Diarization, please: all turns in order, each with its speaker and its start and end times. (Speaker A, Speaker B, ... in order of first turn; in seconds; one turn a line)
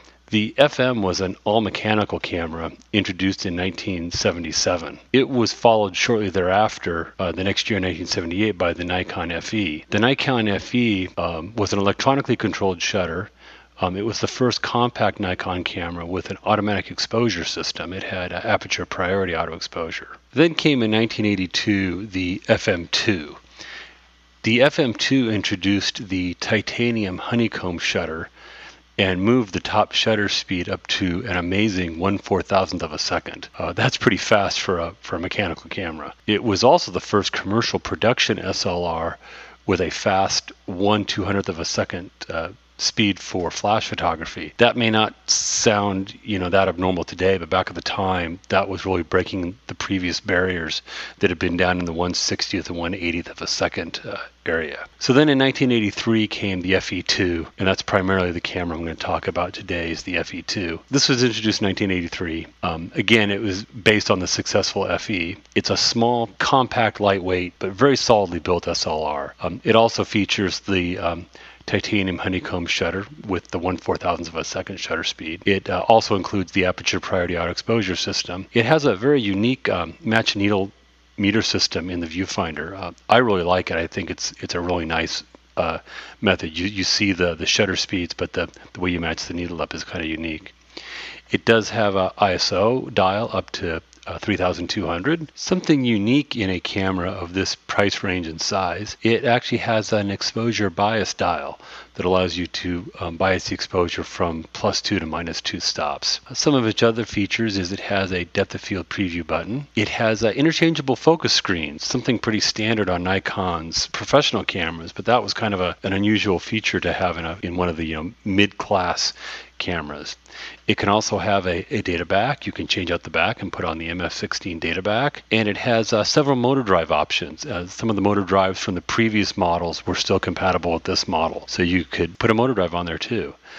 Speaker A: 0.3-23.4
Speaker A: 24.4-28.3
Speaker A: 29.0-90.5
Speaker A: 91.3-133.3